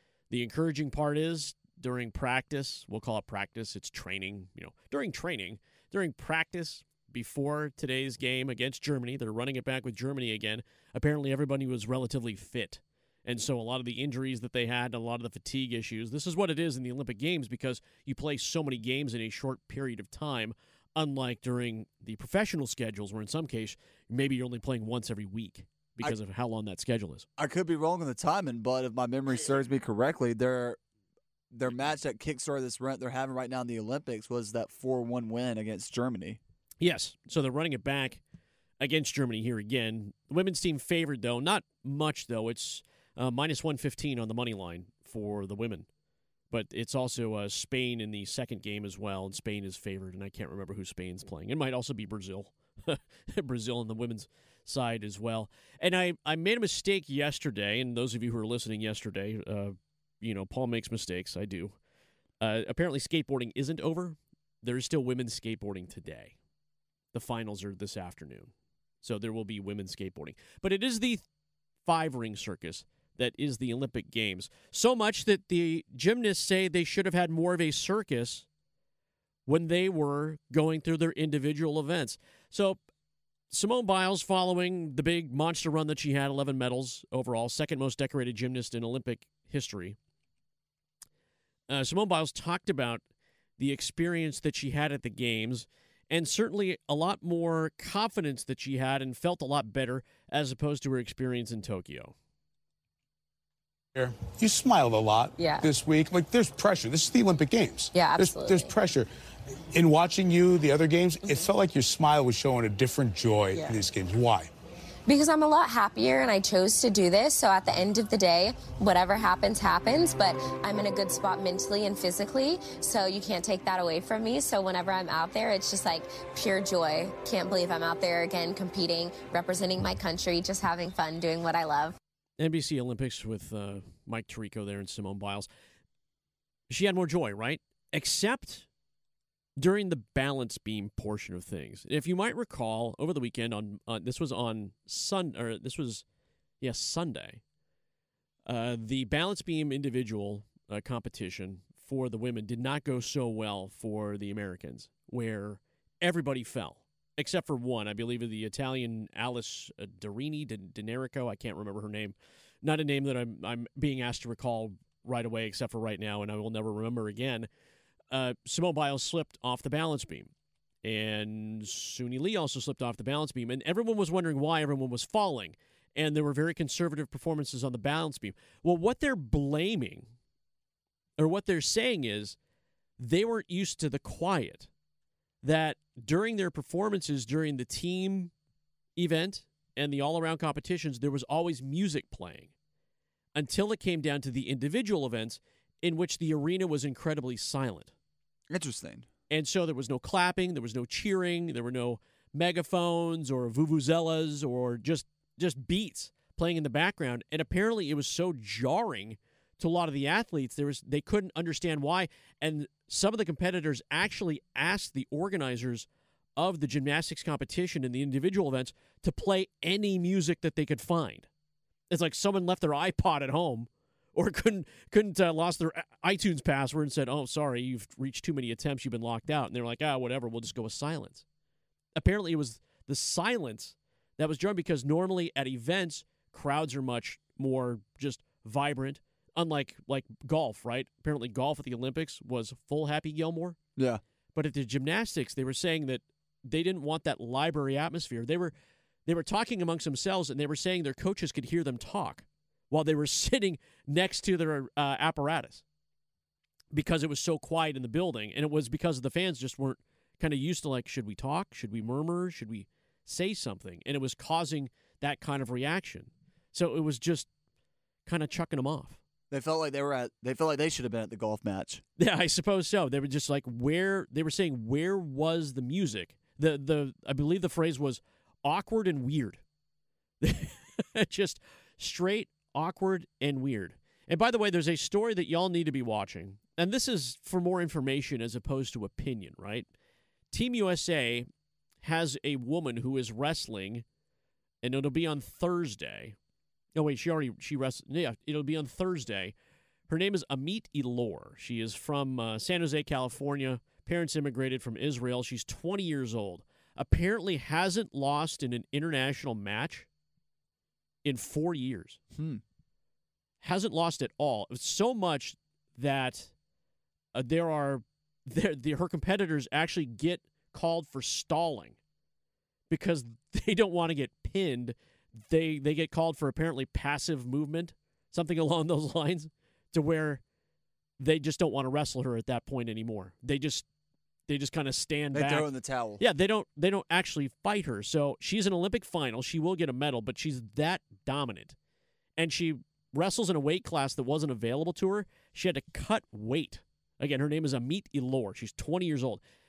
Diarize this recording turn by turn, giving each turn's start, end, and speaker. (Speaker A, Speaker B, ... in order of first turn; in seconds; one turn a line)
Speaker A: 0.3-27.3
Speaker B: 27.4-30.8
Speaker B: 31.5-36.4
Speaker A: 36.8-38.2
Speaker A: 38.8-45.9
Speaker A: 46.5-61.8
Speaker A: 62.4-66.3
Speaker A: 67.1-71.2
Speaker A: 71.8-78.5
Speaker A: 79.5-82.8
Speaker A: 83.5-90.0
Speaker A: 91.7-93.0
Speaker A: 93.6-102.1
Speaker C: 103.9-109.1
Speaker D: 105.4-105.7
Speaker D: 107.9-108.7
Speaker C: 109.7-114.5
Speaker D: 111.2-111.5
Speaker D: 115.1-131.9
Speaker A: 132.4-135.5
Speaker A: 136.7-138.7
Speaker A: 139.6-146.0
Speaker A: 146.6-147.4
Speaker A: 148.4-167.5
Speaker A: 168.1-170.3
Speaker A: 170.8-180.1
Speaker A: 181.2-182.4
Speaker A: 183.0-184.7
Speaker A: 185.4-188.3
Speaker A: 189.0-192.5
Speaker A: 193.3-197.9
Speaker B: 198.5-199.1
Speaker A: 199.3-221.3
Speaker A: 221.9-231.2
Speaker A: 231.9-243.6
Speaker A: 244.3-248.5
Speaker A: 249.1-255.6
Speaker A: 256.7-267.3
Speaker A: 268.1-269.0
Speaker B: 269.3-271.8
Speaker A: 272.0-279.4
Speaker A: 280.2-289.7
Speaker A: 290.3-291.2
Speaker A: 291.8-293.8
Speaker A: 294.6-296.2
Speaker A: 296.7-299.3
Speaker A: 299.9-309.9
Speaker A: 311.0-312.0
Speaker B: 312.1-312.4
Speaker A: 313.4-316.3
Speaker A: 317.1-321.8
Speaker A: 322.7-330.2
Speaker A: 331.0-333.6
Speaker A: 334.3-335.5
Speaker B: 335.1-336.0
Speaker A: 336.0-341.6
Speaker A: 342.2-349.2